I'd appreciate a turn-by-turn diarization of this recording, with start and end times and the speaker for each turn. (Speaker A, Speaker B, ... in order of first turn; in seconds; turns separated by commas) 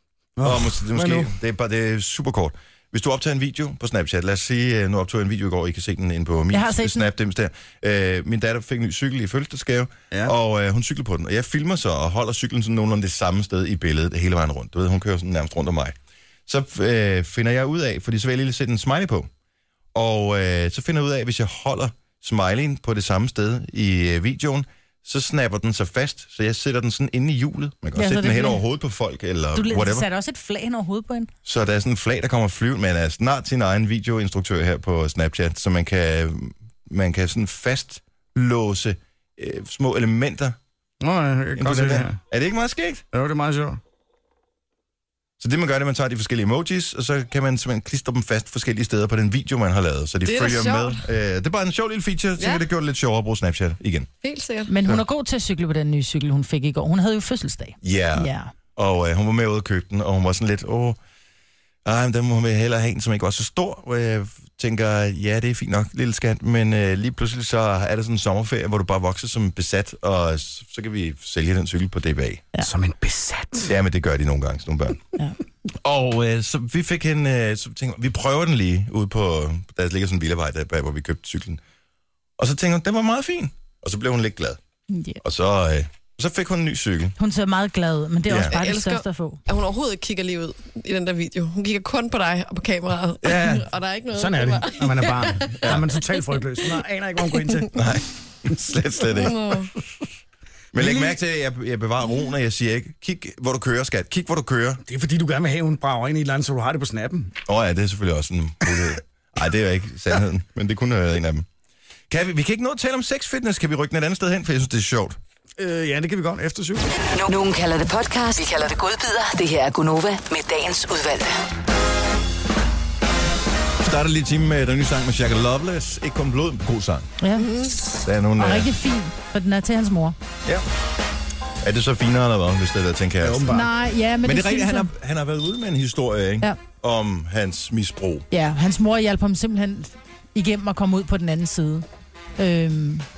Speaker A: 0.3-1.3, Speaker B: 0.4-15.9, Speaker C: 6.5-7.0, Speaker B: 16.5-19.3, Speaker B: 19.9-30.1, Speaker C: 27.9-28.6, Speaker C: 29.5-31.3, Speaker B: 31.4-40.6, Speaker A: 41.0-42.2, Speaker B: 41.6-43.0, Speaker A: 43.1-43.8, Speaker B: 45.4-54.1, Speaker D: 50.2-51.0, Speaker D: 52.4-52.6, Speaker D: 54.2-54.7, Speaker C: 54.7-58.5, Speaker B: 57.8-61.0, Speaker B: 61.8-72.5, Speaker A: 72.6-73.7, Speaker B: 73.6-75.0, Speaker B: 75.8-81.6, Speaker B: 82.4-84.6, Speaker C: 84.9-85.2, Speaker B: 85.2-87.1, Speaker C: 87.2-89.4, Speaker B: 88.3-88.5, Speaker D: 88.5-96.8, Speaker A: 93.2-97.8, Speaker D: 97.3-97.6, Speaker B: 97.7-99.5, Speaker D: 99.0-99.7, Speaker A: 100.7-101.2, Speaker B: 100.7-104.8, Speaker A: 104.8-107.3, Speaker B: 107.5-111.5, Speaker B: 112.1-115.2, Speaker A: 115.6-116.9, Speaker E: 117.1-121.4, Speaker B: 123.8-127.1, Speaker C: 127.2-127.5, Speaker D: 127.3-127.8, Speaker B: 128.0-128.7, Speaker C: 128.4-130.2, Speaker B: 131.6-133.6, Speaker A: 133.2-133.7, Speaker C: 133.5-134.9, Speaker B: 134.2-138.2, Speaker C: 138.3-141.8, Speaker C: 142.4-143.0